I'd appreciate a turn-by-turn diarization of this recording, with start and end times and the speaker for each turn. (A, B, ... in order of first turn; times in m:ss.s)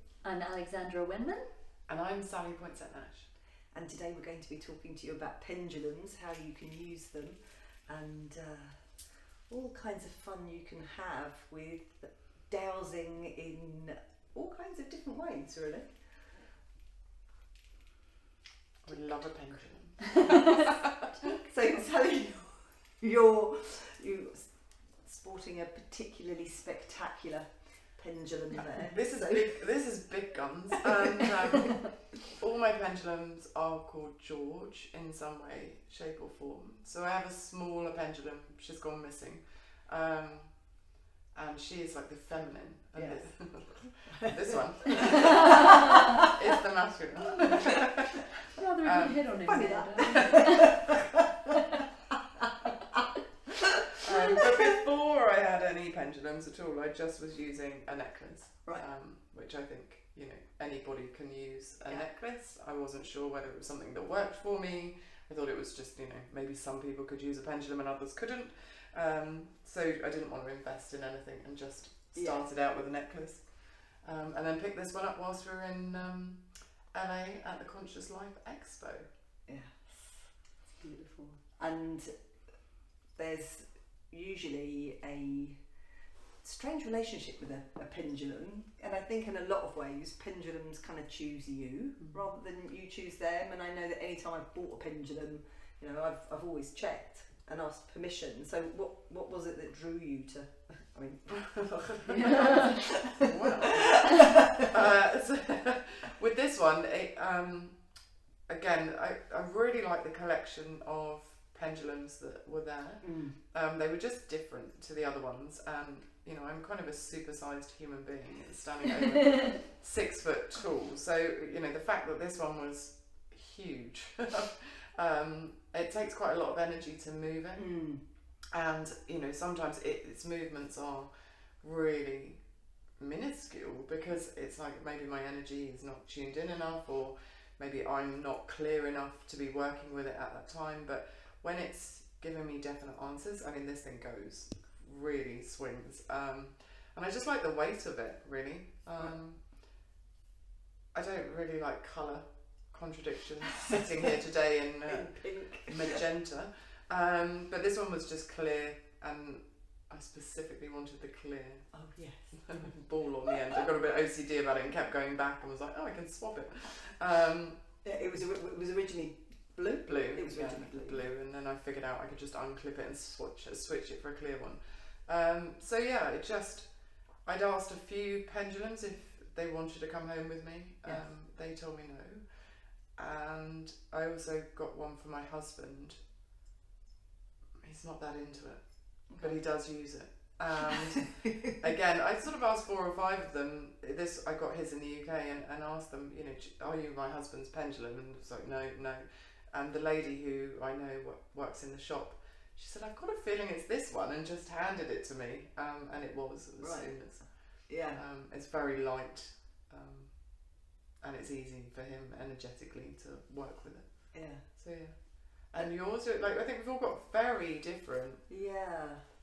0:00.2-0:01.5 A
0:01.9-0:03.3 B
0:03.7-0:16.0 C
0:18.8-0:20.8 B
0:20.2-0:20.6 A
0:21.4-0:29.6 C
0:28.7-0:49.3 B
0:30.8-0:31.7 C
0:42.9-0:45.5 C
0:45.4-0:45.8 A
0:48.5-0:50.7 A
0:49.4-0:50.9 C
0:54.0-1:19.1 B
0:54.0-0:54.3 A
1:12.1-1:12.5 C
1:19.4-1:20.3 C
1:20.8-1:21.4 A
1:21.6-1:25.7 C
1:26.4-1:44.4 C
1:41.4-2:29.7 B
1:42.1-1:42.8 A
1:53.0-1:53.4 C
2:07.5-2:08.0 C
2:30.9-2:47.6 B
2:34.9-2:36.0 C
2:41.7-2:42.7 C
2:47.8-2:51.0 C
2:49.8-3:06.0 B
3:07.6-3:38.2 B
3:09.1-3:09.4 C
3:26.6-3:28.0 C
3:34.1-3:34.5 C
3:38.3-3:39.0 C